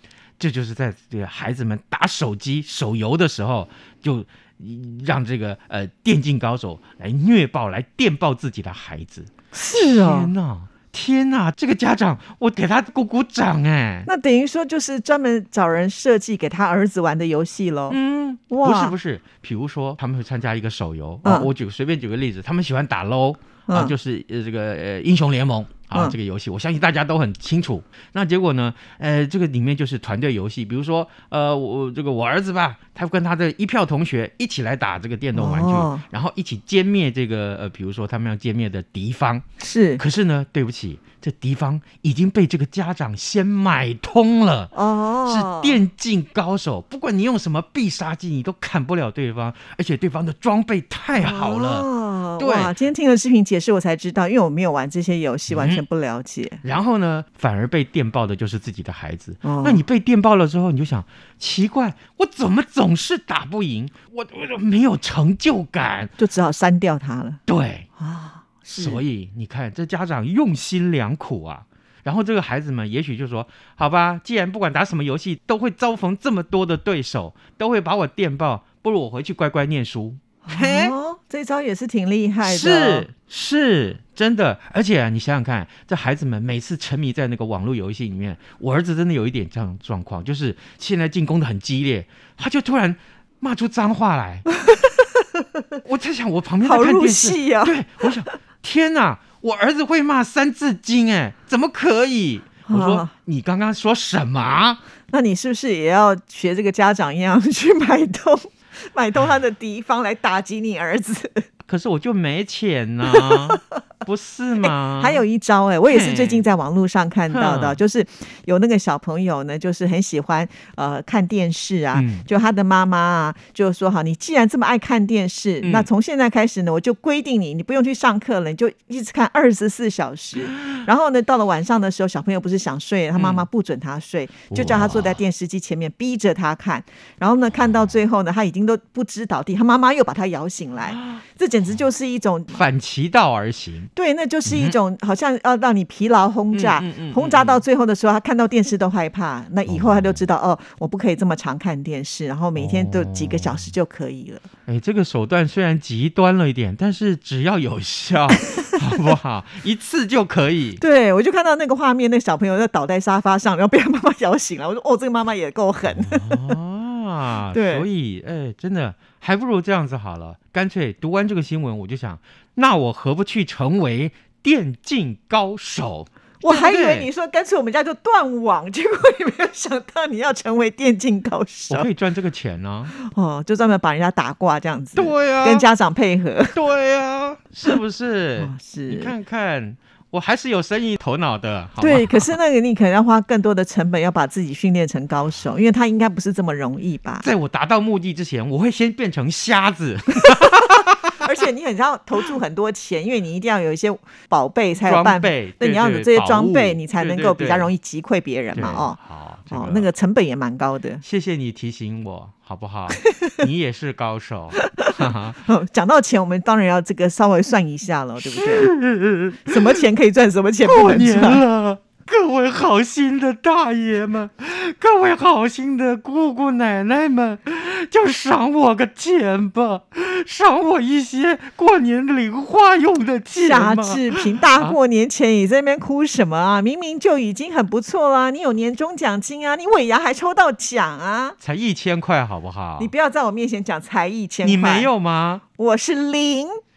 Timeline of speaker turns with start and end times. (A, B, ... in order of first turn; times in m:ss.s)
0:00.4-0:14.1 A
0:09.5-0:10.3 B
0:14.1-0:18.0 B
0:17.9-0:39.4 A
0:18.5-0:19.0 B
0:21.2-0:21.5 B
0:23.7-0:23.9 B
0:35.3-0:36.0 B
0:39.6-0:40.0 B
0:40.0-0:52.8 A
0:44.7-0:45.8 B
0:51.2-0:56.6 B
0:55.5-0:55.8 A
0:56.6-1:06.1 A
0:59.4-0:59.9 B
1:06.2-1:07.4 B
1:07.5-1:07.9 A
1:08.0-1:09.0 B
1:08.7-1:20.9 A
1:20.5-1:23.1 B
1:22.4-1:34.5 A
1:35.8-1:44.8 A
1:36.6-1:38.3 B
1:42.7-1:43.1 B
1:45.1-1:51.5 B
1:51.7-1:55.2 A
1:53.1-1:53.6 B
1:54.6-2:22.6 B
1:55.9-1:56.4 A
1:57.3-1:57.8 A
2:01.9-2:02.3 A
2:05.6-2:05.9 A
2:13.1-2:13.5 A
2:14.5-2:15.2 A
2:20.9-2:21.2 A
2:22.5-2:23.9 A
2:24.0-2:34.5 B
2:24.5-2:24.8 A
2:26.5-2:27.6 A
2:29.7-2:30.2 A
2:32.6-2:33.7 A
2:34.7-2:40.8 A
2:40.8-2:46.6 B
2:45.9-2:57.1 A
2:47.5-2:47.9 B
2:56.4-3:01.9 B
3:01.7-3:02.9 A
3:02.9-3:06.6 B
3:05.0-3:05.7 A
3:06.5-3:12.4 A
3:08.4-3:09.1 B
3:11.8-3:17.3 B
3:17.2-3:21.2 A
3:21.2-3:29.0 B
3:24.8-3:27.7 A
3:28.6-3:29.9 A
3:29.5-3:31.0 B
3:31.0-3:35.4 A
3:35.4-3:38.7 B
3:38.2-3:39.8 A
3:39.4-3:41.4 B
3:40.6-3:54.8 A
3:53.4-4:01.4 B
4:01.4-4:02.9 A
4:02.8-4:04.9 B
4:04.4-4:05.4 A
4:05.6-4:06.6 B